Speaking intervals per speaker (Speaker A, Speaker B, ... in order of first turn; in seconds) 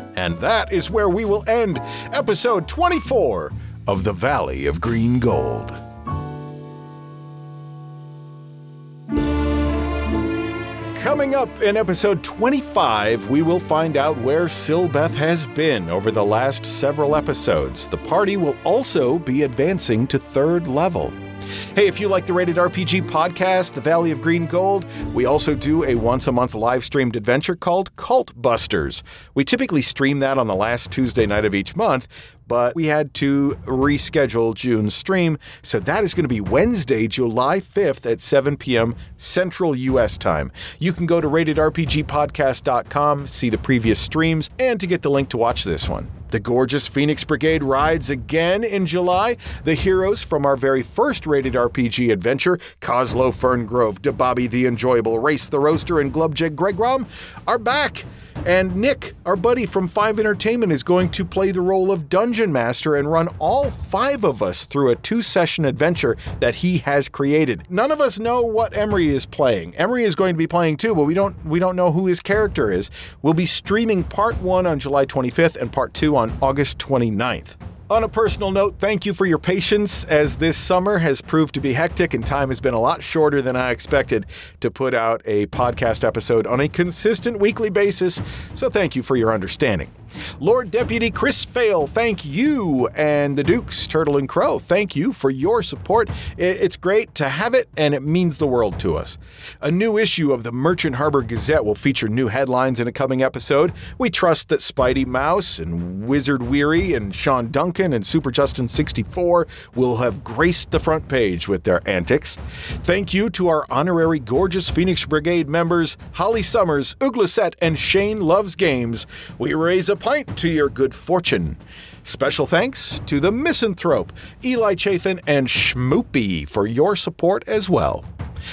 Speaker A: 0.1-5.8, 10.9-21.2, 21.7-128.1